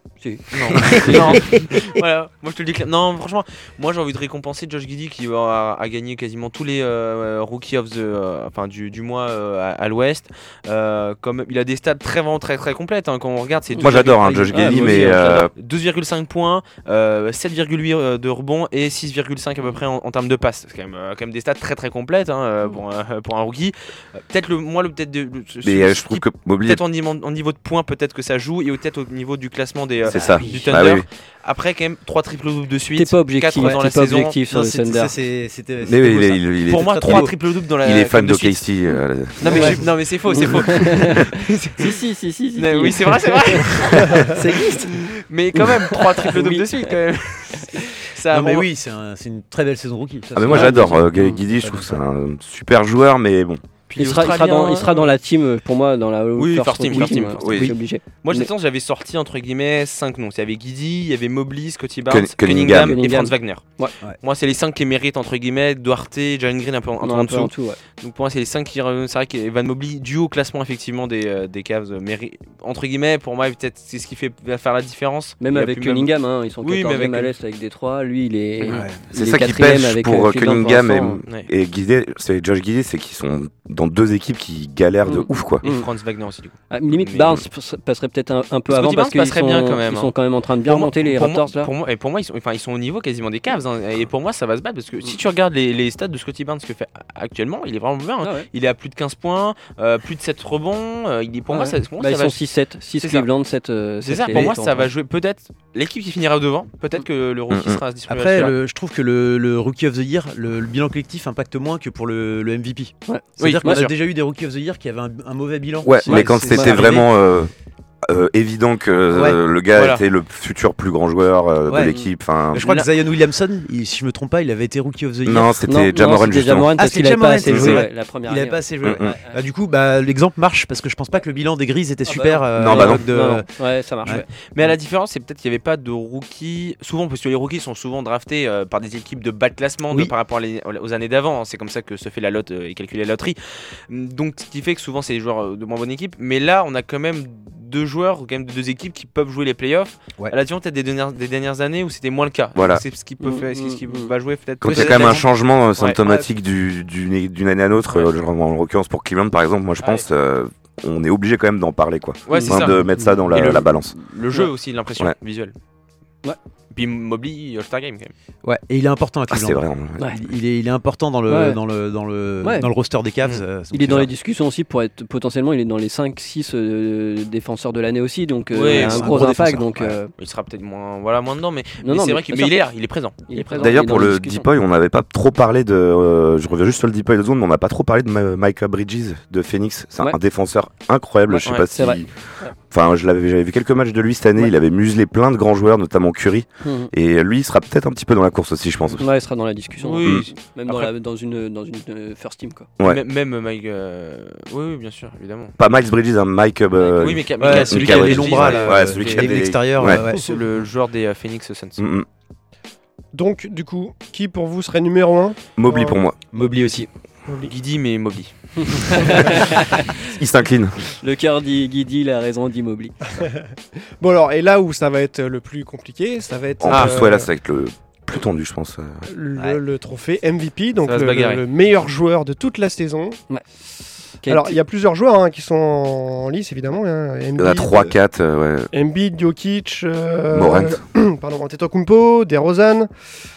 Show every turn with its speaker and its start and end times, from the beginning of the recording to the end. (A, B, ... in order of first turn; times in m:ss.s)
0:00.2-0:01.2 A
0:00.5-0:34.4 B
0:01.0-0:01.6 C
0:13.8-0:15.5 D
0:14.5-0:15.4 A
0:25.6-0:26.8 D
0:30.1-0:31.0 D
0:30.1-0:30.6 C
0:33.0-0:35.1 A
0:33.6-0:33.8 C
0:34.4-0:37.3 C
0:35.8-0:37.3 D
0:36.6-0:38.7 B
0:37.8-0:39.5 D
0:39.4-0:42.0 B
0:39.4-0:46.9 A
0:39.4-0:39.9 C
0:42.6-0:48.7 B
0:48.3-0:52.0 C
0:50.3-0:53.6 D
0:50.4-0:51.4 A
0:53.9-0:55.2 B
0:53.9-0:58.5 A
0:56.4-0:57.6 B
0:57.0-0:57.7 C
0:57.4-0:57.7 D
0:58.2-1:03.6 B
1:02.1-1:03.0 D
1:02.7-1:03.9 A
1:04.2-1:17.3 B
1:07.0-1:07.8 A
1:15.4-1:21.2 A
1:18.7-1:19.0 C
1:19.1-1:25.6 D
1:25.0-1:25.9 A
1:25.6-1:27.4 B
1:26.7-1:31.7 A
1:28.7-1:42.4 B
1:38.2-1:38.5 A
1:41.5-1:44.9 A
1:43.0-1:43.3 B
1:44.0-1:48.5 B
1:44.3-1:44.6 C
1:47.5-1:47.8 D
1:48.0-1:57.1 C
1:53.0-1:53.8 A
1:53.4-1:53.9 B
1:55.8-1:57.5 D
1:56.1-1:56.9 B
1:58.0-2:02.8 D
1:59.1-1:59.4 C
1:59.7-2:00.0 B
2:01.7-2:05.5 C
2:01.8-2:02.1 A
2:05.2-2:06.7 D
2:05.6-2:09.4 A
2:06.7-2:13.5 C
2:07.4-2:07.8 D
2:08.8-2:09.1 D
2:12.0-2:14.2 A
2:12.5-2:13.0 D
2:14.0-2:14.7 C
2:14.4-2:36.0 B
2:32.5-2:32.8 D
2:33.2-2:34.1 A
2:34.6-2:43.9 D
2:34.6-2:35.2 C
2:42.3-2:45.5 B
2:42.3-2:42.6 A
2:46.7-2:48.1 B
2:48.4-2:54.1 C
2:49.3-2:50.1 D
2:51.3-2:51.6 A
2:52.4-2:52.7 A
2:53.7-3:00.1 A
2:58.5-2:59.2 B
2:58.7-3:00.0 C
3:00.2-3:03.7 B
3:01.8-3:02.6 A
3:03.3-3:04.5 A
3:03.6-3:12.1 D
3:11.7-3:12.5 A
3:12.7-3:19.0 D
3:16.6-3:16.9 A
3:19.0-3:22.7 A
3:19.8-3:20.9 B
3:22.8-3:25.6 B
3:25.6-3:30.0 D
3:26.9-3:31.8 B
3:27.4-3:30.4 C
3:31.8-3:32.0 D
3:33.1-3:36.0 E
3:35.6-3:36.2 D
3:36.3-3:36.9 C
3:37.3-3:37.5 E
3:37.4-3:39.2 B
3:38.6-3:40.0 A
3:40.1-3:40.8 D
3:41.0-3:43.0 A
3:43.2-3:43.4 E
3:44.0-3:47.3 E
3:46.6-3:49.0 D
3:46.7-3:47.0 B
3:49.1-3:53.2 E
3:50.8-3:51.4 B
3:54.2-3:54.6 A
3:54.3-3:57.9 E
3:57.4-3:58.7 D
3:58.7-4:02.9 E
4:00.3-4:00.8 D